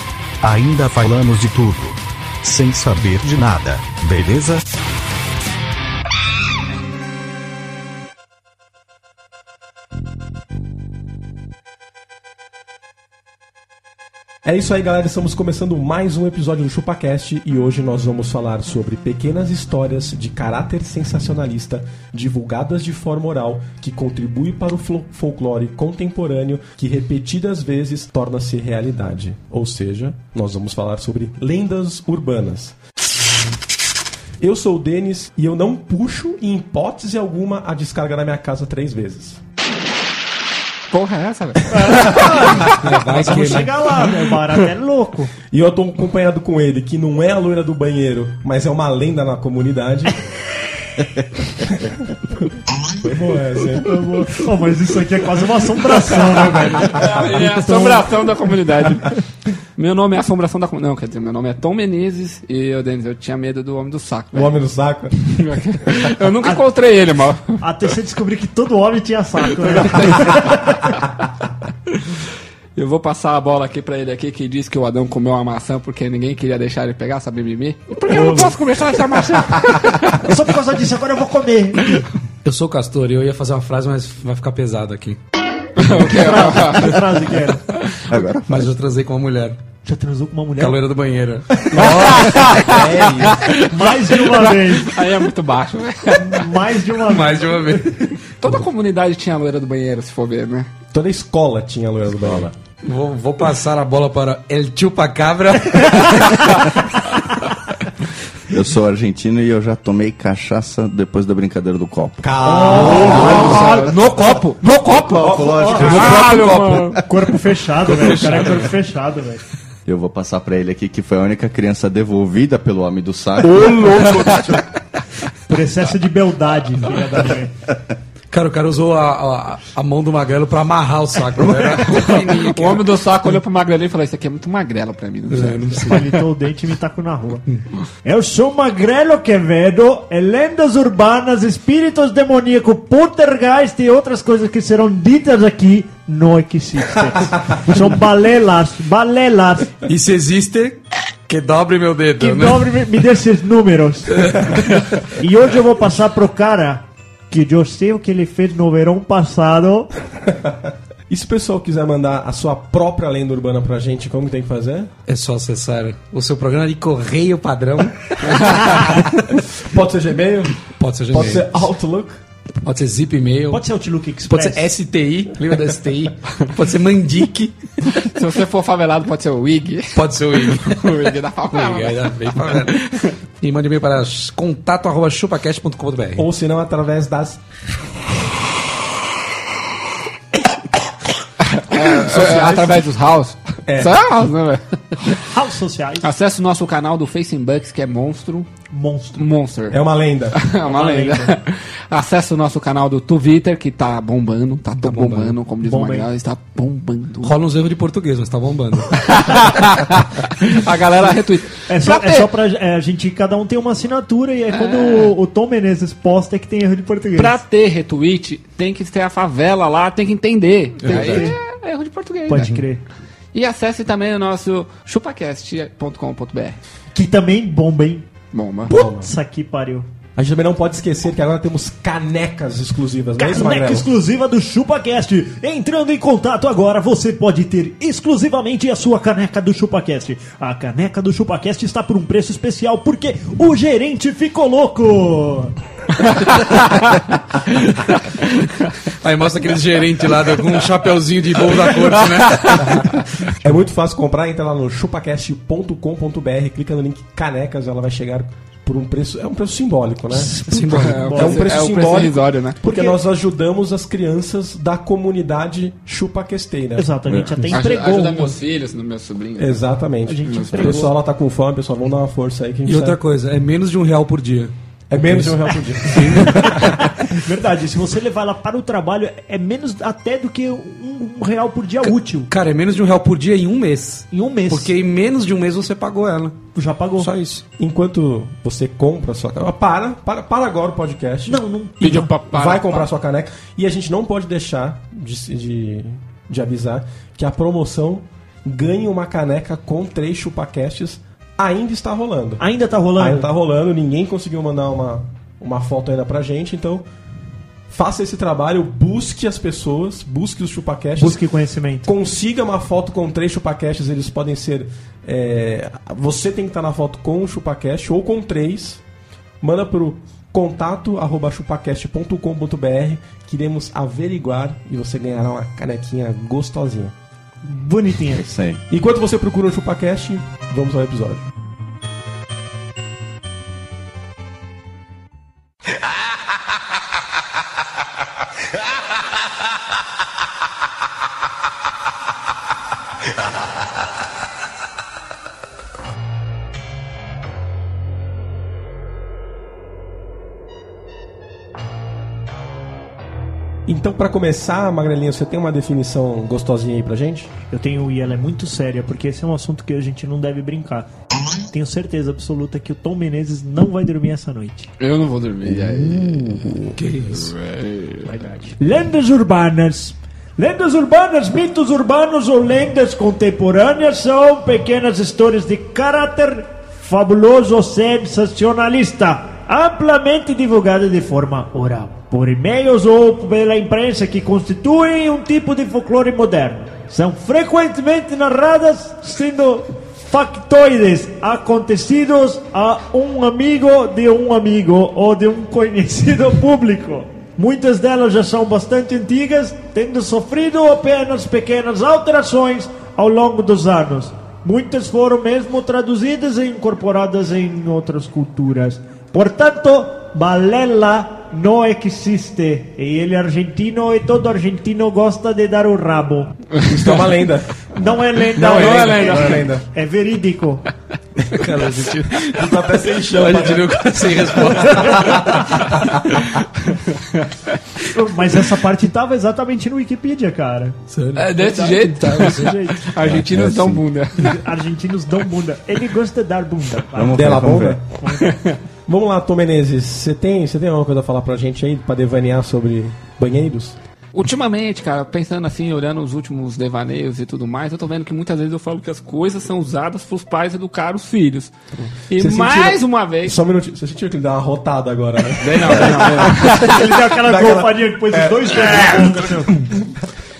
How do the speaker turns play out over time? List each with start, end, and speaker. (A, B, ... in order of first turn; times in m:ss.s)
0:00.4-0:04.6 A
0:14.4-0:32.8 B
0:34.4-0:39.4 B
0:40.9-0:42.8 C
0:41.7-0:45.3 D
0:42.6-0:44.1 E
0:45.5-0:50.2 B
0:51.6-0:52.1 B
0:53.0-0:54.0 B
0:53.8-0:58.1 D
0:56.4-0:57.0 B
0:56.8-0:59.2 C
0:59.8-1:04.5 C
1:04.3-1:05.4 B
1:05.3-1:07.6 C
1:07.6-1:10.9 D
1:09.6-1:10.6 C
1:12.8-1:20.4 C
1:18.1-1:18.6 B
1:20.1-1:22.0 D
1:22.4-1:25.2 E
1:25.8-1:27.2 C
1:25.8-1:27.6 D
1:27.8-1:28.0 C
1:28.1-1:28.8 F
1:28.5-1:29.6 E
1:29.8-1:30.8 D
1:30.6-1:32.6 E
1:31.7-1:33.6 B
1:31.8-1:36.6 C
1:33.6-1:35.0 D
1:36.1-1:37.8 D
1:37.0-1:38.6 E
1:38.4-1:40.7 C
1:40.9-1:42.5 B
1:42.8-1:46.8 E
1:48.5-1:53.4 F
1:52.2-1:54.1 B
1:52.4-1:53.9 D
1:52.7-1:57.0 C
1:55.0-1:56.4 F
1:55.1-1:56.9 B
1:55.6-1:56.1 D
1:56.3-1:57.0 E
1:57.0-1:59.4 D
1:57.8-1:58.7 E
1:59.8-2:04.1 F
2:03.4-2:04.6 B
2:04.1-2:04.4 C
2:05.5-2:07.5 D
2:08.3-2:12.9 E
2:11.6-2:15.9 C
2:15.3-2:16.2 E
2:15.7-2:17.4 D
2:18.0-2:29.8 D
2:29.8-2:32.8 E
2:32.2-2:39.9 D
2:34.2-2:34.8 E
2:41.1-2:44.9 B
2:45.1-2:49.4 E
2:48.3-2:48.6 C
2:49.6-2:50.6 B
2:50.7-2:51.5 E
2:51.1-2:52.2 B
2:52.6-2:53.6 E
2:53.5-2:54.7 D
2:54.3-2:57.5 E
2:57.9-3:03.1 C
2:59.9-3:02.9 E
3:03.4-3:06.2 E
3:06.2-3:07.4 B
3:11.4-3:15.2 C
3:11.7-3:12.9 B
3:13.7-3:14.0 B
3:15.1-3:16.1 D
3:16.0-3:18.5 C
3:18.7-3:19.2 D
3:19.2-3:19.8 C
3:19.7-3:20.4 B
3:20.3-3:27.4 C
3:20.6-3:21.4 D
3:24.8-3:25.4 E
3:25.6-3:26.1 D
3:27.2-3:29.4 E
3:28.9-3:32.3 C
3:31.7-3:37.4 D
3:34.5-3:35.1 C
3:37.2-3:42.6 C
3:40.8-3:41.3 E
3:40.8-3:41.4 D
3:42.3-3:42.8 D
3:43.3-3:46.6 C
3:46.9-3:48.0 D
3:48.3-3:48.7 C
3:48.7-3:49.1 B
3:48.7-3:49.9 D
3:50.2-3:53.9 B
3:53.2-4:05.6 D
4:06.1-4:06.8 C
4:09.0-4:13.3 E
4:11.6-4:12.8 C
4:13.4-4:20.4 B
4:20.1-4:21.5 D
4:20.4-4:21.2 E
4:20.7-4:22.6 C
4:21.1-4:28.3 B
4:22.6-4:23.0 D
4:26.8-4:28.3 D
4:27.5-4:29.6 C
4:29.4-4:33.0 B
4:30.1-4:30.9 D
4:30.2-4:30.9 C
4:32.6-4:36.8 E
4:34.9-4:36.8 B
4:36.3-4:42.3 D
4:41.8-4:46.4 E
4:44.1-4:44.8 D
4:46.5-4:47.1 D
4:47.0-4:47.4 E
4:47.6-4:51.4 B
4:51.3-4:52.1 D
4:51.8-4:52.9 C
4:52.2-5:02.4 B
5:02.4-5:03.3 D
5:03.0-5:06.8 B
5:07.7-5:11.2 B
5:11.0-5:11.9 D
5:11.8-5:18.8 B
5:19.4-5:26.9 B
5:27.4-5:28.2 D
5:28.1-5:28.6 F
5:28.7-5:31.3 B
5:53.6-5:57.3 B
5:57.5-6:00.9 D
6:01.4-6:04.7 D
6:04.8-6:08.1 C
6:05.4-6:06.8 B
6:06.8-6:07.3 E
6:08.0-6:56.4 D
6:56.6-6:59.6 B
6:56.6-6:57.0 C
6:57.7-7:00.6 D
6:58.4-6:59.5 C
7:01.3-7:02.5 E
7:02.2-7:04.1 B
7:03.1-7:05.7 E
7:04.6-7:05.7 D
7:07.9-7:12.9 D
7:10.9-7:11.4 E
7:11.2-7:14.3 C
7:12.0-7:12.6 E
7:13.0-7:13.8 F
7:14.2-7:18.4 D
7:16.9-7:17.8 F
7:17.1-7:18.0 B
7:18.8-7:23.8 B
7:24.1-7:31.5 C
7:31.7-7:39.2 B
7:32.1-7:33.4 C
7:35.4-7:37.0 C
7:36.4-7:39.6 D